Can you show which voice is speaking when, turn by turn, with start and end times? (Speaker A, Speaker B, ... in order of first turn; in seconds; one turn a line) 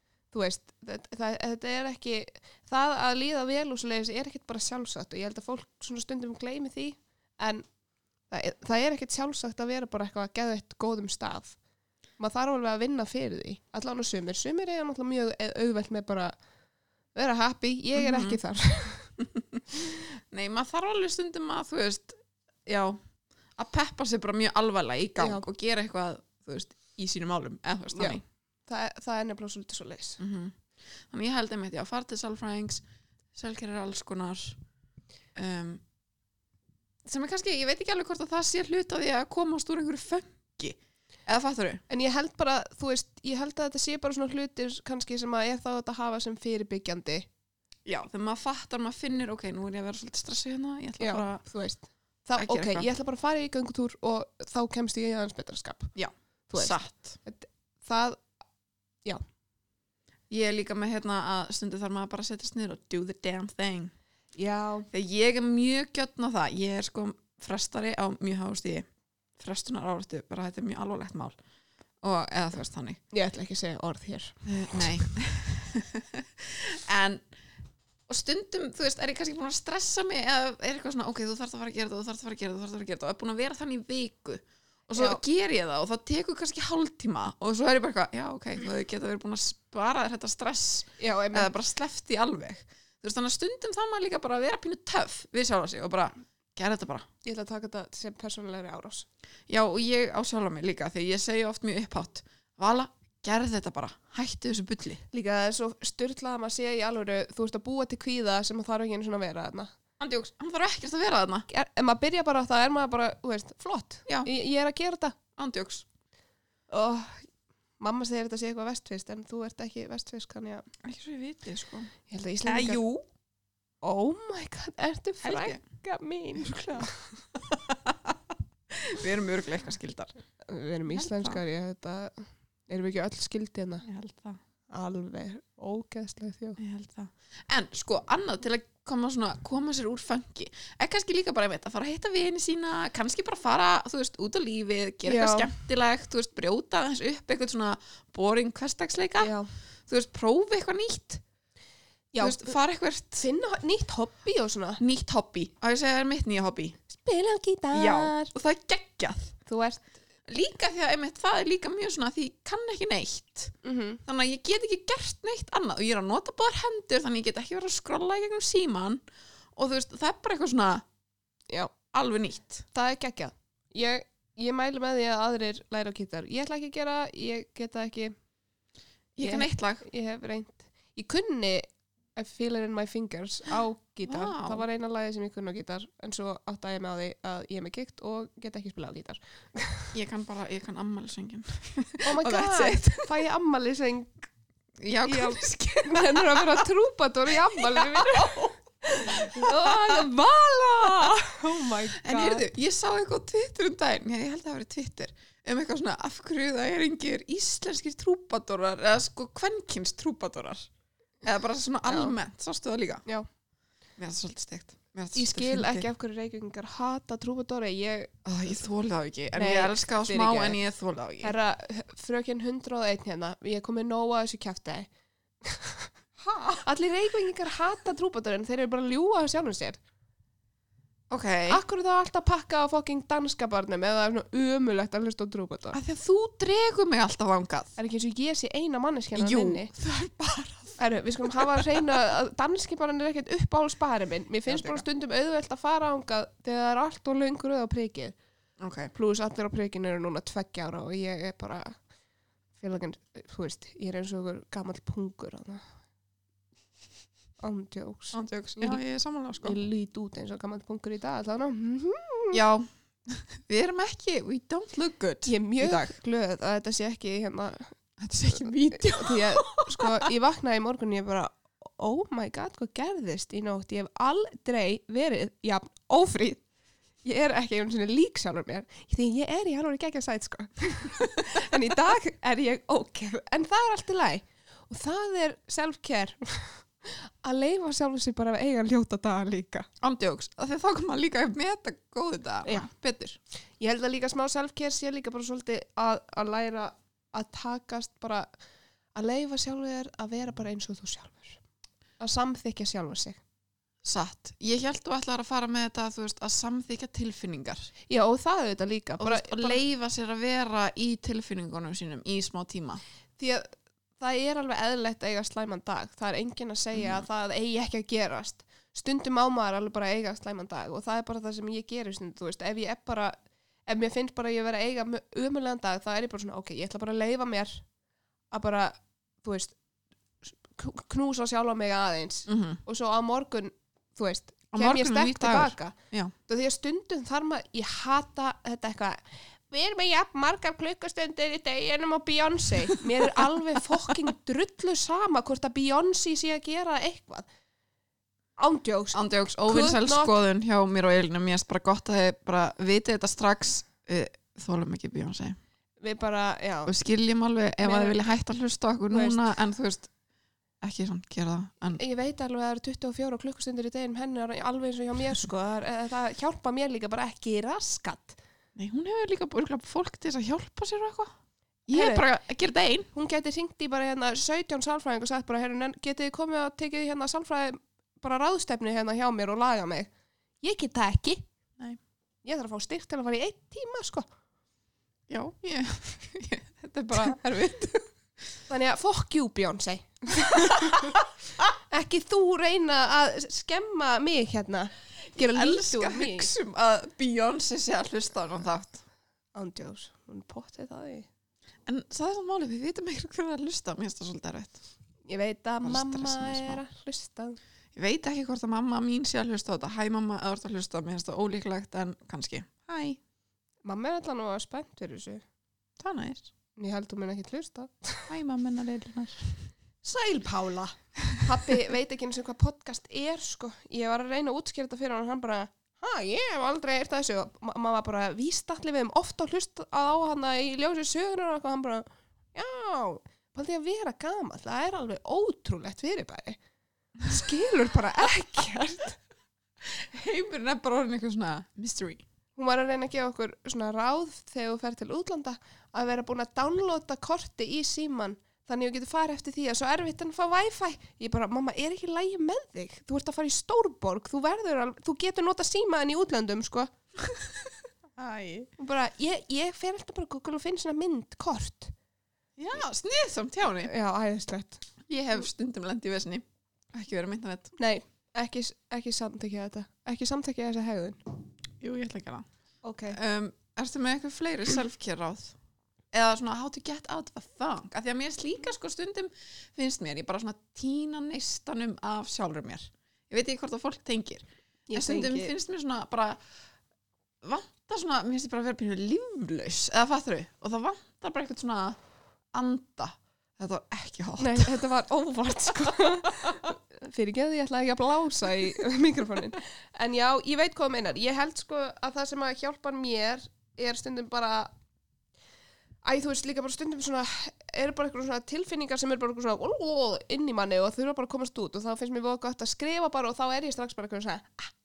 Speaker A: 0.3-7.6
Speaker A: 8.3-11.6
Speaker A: 12.2-16.3
Speaker A: 17.1-19.1
Speaker B: 17.9-18.4
Speaker B: 19.2-23.0
Speaker B: 23.6-28.2
Speaker A: 25.2-25.4
Speaker A: 27.9-30.2
Speaker B: 30.2-30.6
Speaker B: 31.1-32.8
Speaker B: 33.3-34.6
Speaker B: 35.3-35.8
Speaker B: 37.0-41.8
Speaker A: 41.9-47.3
Speaker B: 47.9-51.4
Speaker A: 51.0-55.9
Speaker B: 52.4-52.9
Speaker B: 55.9-57.2
Speaker A: 56.5-58.2
Speaker B: 60.3-63.9
Speaker A: 64.4-64.9
Speaker B: 64.9-68.9
Speaker B: 69.4-71.4
Speaker B: 72.0-73.0
Speaker A: 73.1-75.1
Speaker B: 74.4-77.2
Speaker B: 78.1-97.0
Speaker A: 85.0-85.2
Speaker A: 91.0-91.5
Speaker A: 97.2-99.1
Speaker B: 99.5-105.0
Speaker A: 105.1-109.7
Speaker B: 110.0-111.5
Speaker A: 111.5-115.2
Speaker B: 115.4-115.8
Speaker A: 116.7-117.3
Speaker A: 117.8-120.7
Speaker B: 120.8-121.9
Speaker A: 122.1-122.8
Speaker B: 122.4-123.0
Speaker A: 123.8-126.9
Speaker B: 125.2-125.6
Speaker B: 126.4-130.1
Speaker A: 130.4-133.8
Speaker B: 130.9-131.4
Speaker B: 133.8-134.4
Speaker A: 134.7-136.6
Speaker B: 136.6-149.3
Speaker A: 145.0-145.5
Speaker A: 149.2-149.5
Speaker B: 149.9-151.2
Speaker A: 152.1-152.6
Speaker B: 152.2-153.3
Speaker A: 153.2-154.8
Speaker B: 154.8-156.8
Speaker A: 156.9-158.3
Speaker B: 157.7-159.3
Speaker A: 159.4-159.9
Speaker B: 160.3-163.5
Speaker A: 163.6-164.0
Speaker B: 164.1-169.0
Speaker B: 169.5-170.8
Speaker B: 171.9-172.6
Speaker A: 172.7-178.1
Speaker B: 179.2-179.8
Speaker A: 179.2-189.9
Speaker B: 184.1-184.6
Speaker B: 189.9-193.1
Speaker A: 192.0-194.1
Speaker B: 194.8-196.6
Speaker A: 195.1-202.5
Speaker B: 197.7-198.5
Speaker B: 199.0-200.0
Speaker B: 200.8-201.1
Speaker B: 202.0-210.7
Speaker B: 211.2-213.0
Speaker A: 211.9-212.1
Speaker B: 214.0-215.8
Speaker A: 215.1-218.1
Speaker B: 218.2-221.3
Speaker A: 219.3-220.6
Speaker A: 221.2-224.9
Speaker A: 225.4-225.9
Speaker B: 226.2-226.6
Speaker A: 226.6-229.8
Speaker B: 231.1-231.6
Speaker A: 231.5-235.8
Speaker B: 235.7-237.8
Speaker A: 237.8-239.7
Speaker B: 239.2-241.7
Speaker A: 240.8-248.2
Speaker B: 244.5-244.8
Speaker B: 248.6-248.9
Speaker A: 248.9-251.8
Speaker A: 252.6-255.6
Speaker A: 257.4-258.8
Speaker B: 258.1-259.6
Speaker A: 259.4-262.4
Speaker B: 262.3-265.9
Speaker A: 265.2-267.7
Speaker B: 268.0-270.1
Speaker A: 268.3-276.4
Speaker A: 277.0-289.7
Speaker B: 289.8-293.2
Speaker A: 293.6-298.3
Speaker A: 298.9-301.4
Speaker A: 302.0-303.2
Speaker B: 303.8-307.7
Speaker A: 307.9-309.6
Speaker B: 309.0-312.8
Speaker A: 313.2-313.5
Speaker A: 314.0-323.1
Speaker B: 316.8-317.0
Speaker A: 323.7-327.6
Speaker A: 328.3-329.6
Speaker A: 330.2-335.7
Speaker B: 332.3-332.6
Speaker B: 334.5-336.1
Speaker A: 336.2-347.3
Speaker A: 348.4-350.2
Speaker B: 348.9-355.4
Speaker A: 355.8-356.7
Speaker B: 356.6-359.9
Speaker A: 357.6-358.0
Speaker A: 358.9-359.3
Speaker B: 360.6-361.8
Speaker A: 361.8-368.2
Speaker B: 368.6-371.1
Speaker B: 371.7-372.9
Speaker A: 371.7-372.0
Speaker A: 372.9-379.9
Speaker A: 380.4-381.2
Speaker A: 382.2-384.1
Speaker B: 385.1-387.9
Speaker A: 388.5-391.0
Speaker B: 390.6-391.0
Speaker A: 391.6-396.3
Speaker B: 395.2-398.8
Speaker A: 399.3-401.1
Speaker B: 401.6-404.6
Speaker A: 405.1-407.4
Speaker B: 405.6-406.6
Speaker B: 407.8-413.0
Speaker A: 413.6-415.2
Speaker B: 415.8-416.3
Speaker A: 416.6-418.1
Speaker B: 418.1-419.4
Speaker A: 419.8-436.4
Speaker A: 437.0-439.0
Speaker B: 439.6-442.0
Speaker A: 442.4-456.7
Speaker B: 458.0-458.5
Speaker A: 458.6-461.7
Speaker B: 462.4-463.7
Speaker A: 463.6-464.6
Speaker B: 464.9-467.5
Speaker A: 467.6-471.0
Speaker B: 471.6-472.3
Speaker A: 472.6-473.0
Speaker B: 472.9-475.3
Speaker B: 475.9-486.2
Speaker A: 484.7-485.3
Speaker B: 487.2-491.8
Speaker B: 492.3-494.6
Speaker A: 494.2-504.5
Speaker B: 495.3-496.5
Speaker A: 505.8-514.5